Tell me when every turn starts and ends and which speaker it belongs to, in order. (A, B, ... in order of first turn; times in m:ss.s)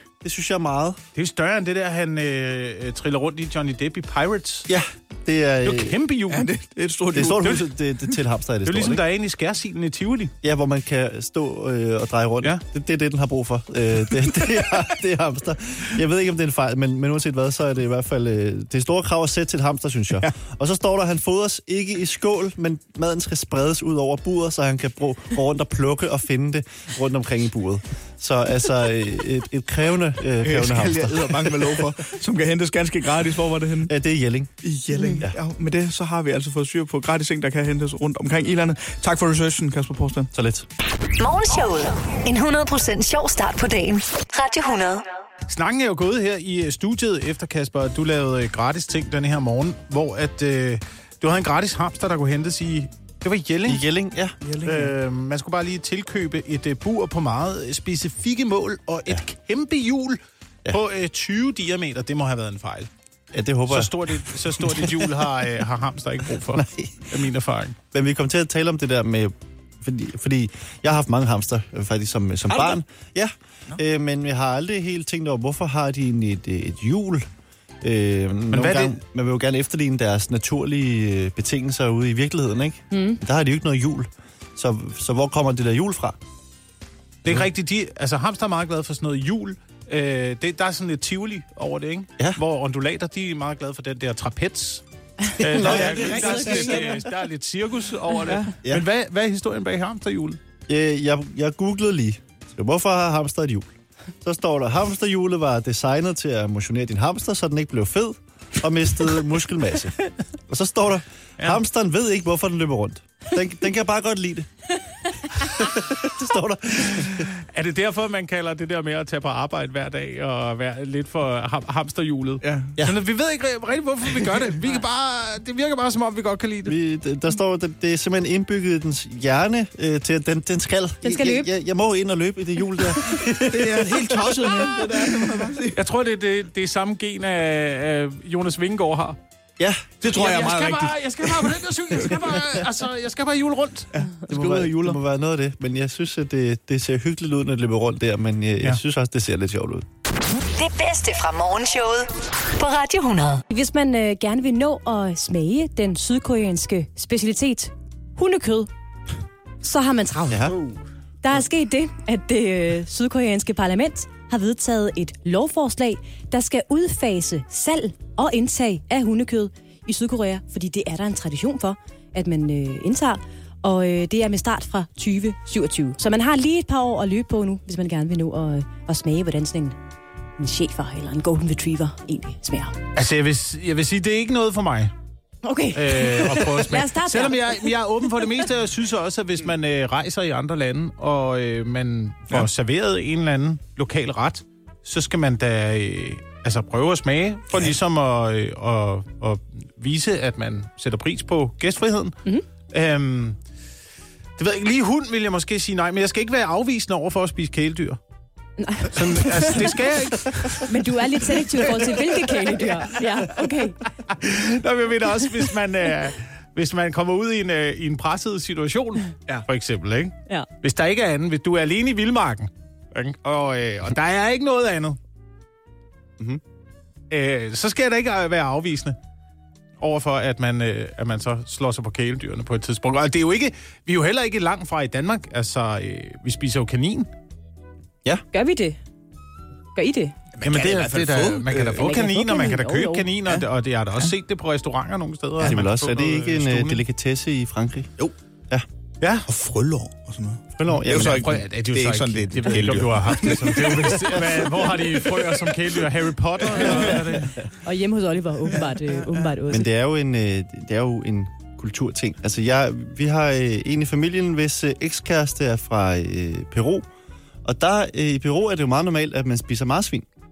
0:00.2-0:01.0 A
0:01.1-0:04.7 B
0:04.7-0:06.0 A
0:05.6-0:06.5 B
0:06.3-0:07.7 C
0:07.1-0:09.0 A
0:07.4-0:07.6 B
0:08.6-0:10.3 B
0:10.4-0:31.9 A
0:30.4-0:33.9 C
0:33.8-0:34.5 A
0:34.6-0:40.3 C
0:34.9-0:35.2 D
0:40.3-0:40.7 A
0:41.2-0:45.0 E
0:45.5-0:53.8 B
0:53.6-0:54.3 A
0:54.4-0:54.9 C
0:54.6-1:02.9 B
1:03.3-1:05.3 A
1:03.7-1:07.8 B
1:06.5-1:07.1 A
1:07.9-1:17.2 A
1:12.5-1:12.8 C
1:17.8-1:26.2 A
1:18.5-1:18.9 B
1:22.9-1:23.2 D
1:27.2-1:40.4 B
1:35.4-1:36.4 A
1:35.5-1:37.0 C
1:36.2-1:36.6 D
1:40.7-1:43.7 A
1:44.2-1:54.5 A
1:55.1-1:57.3 A
1:56.9-2:06.8 B
2:02.4-2:02.7 C
2:06.6-2:15.2 A
2:11.0-2:11.5 D
2:13.4-2:15.8 C
2:15.7-2:19.2 B
2:19.6-2:19.9 A
2:20.0-2:21.5 C
2:20.0-2:23.9 B
2:23.9-2:25.0 C
2:24.3-2:29.8 A
2:30.5-2:33.4 E
2:33.5-2:38.7 D
2:39.6-2:40.6 D
2:40.3-2:40.6 A
2:41.2-2:59.8 D
3:00.4-3:02.8 D
3:02.9-3:04.9 B
3:05.4-3:08.2 D
3:05.7-3:22.2 B
3:22.7-3:23.4 B
3:24.4-3:28.0 B
3:28.6-3:29.7 D
3:28.9-3:30.8 B
3:30.5-3:33.8 D
3:31.6-3:32.5 B
3:34.1-3:45.0 B
3:47.1-3:49.0 B
3:49.8-3:57.1 B
3:58.3-3:58.8 D
3:59.7-4:00.1 D
4:00.3-4:01.8 C
4:00.4-4:06.8 B
4:01.8-4:03.1 D
4:05.4-4:07.9 A
4:09.0-4:09.3 B
4:09.3-4:14.4 C
4:10.6-4:11.3 A
4:10.7-4:17.4 B
4:16.6-4:17.0 C
4:17.6-4:19.7 D
4:19.5-4:26.8 A
4:27.4-4:30.0 A